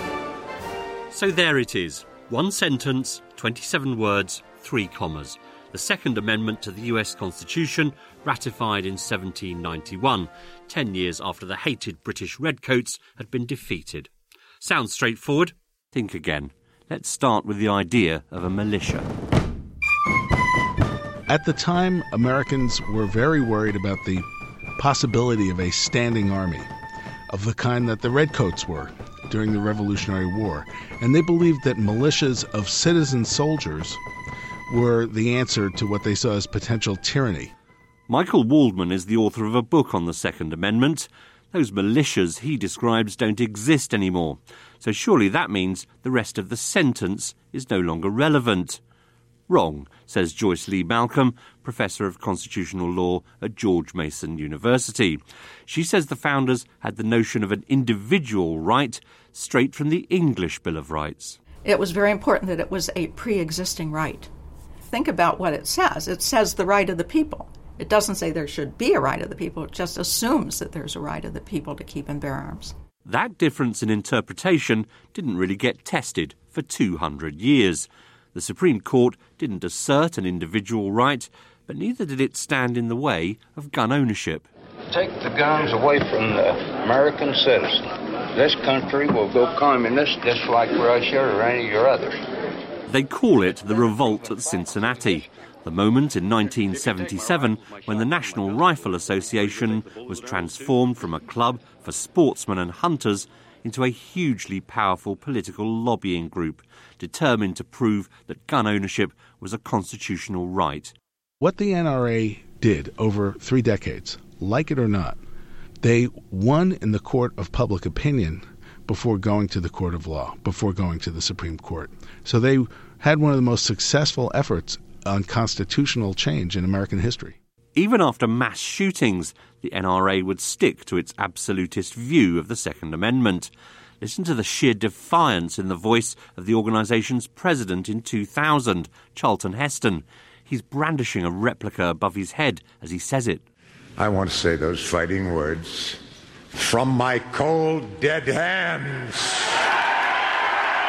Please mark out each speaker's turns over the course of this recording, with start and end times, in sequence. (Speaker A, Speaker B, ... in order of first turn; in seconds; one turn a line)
Speaker A: 1.1-14.1
Speaker A: 14.6-19.1
Speaker B: 21.3-24.2
Speaker B: 24.8-26.7
Speaker B: 27.3-34.0
Speaker B: 34.7-37.5
Speaker A: 38.1-48.8
Speaker A: 49.5-61.4
Speaker C: 61.6-64.3
Speaker C: 64.8-72.8
Speaker A: 73.0-84.5
Speaker D: 84.9-92.2
Speaker A: 92.9-110.9
Speaker B: 111.4-115.2
Speaker B: 115.8-127.4
Speaker A: 127.8-143.4
Speaker E: 144.0-146.0
Speaker E: 146.5-149.5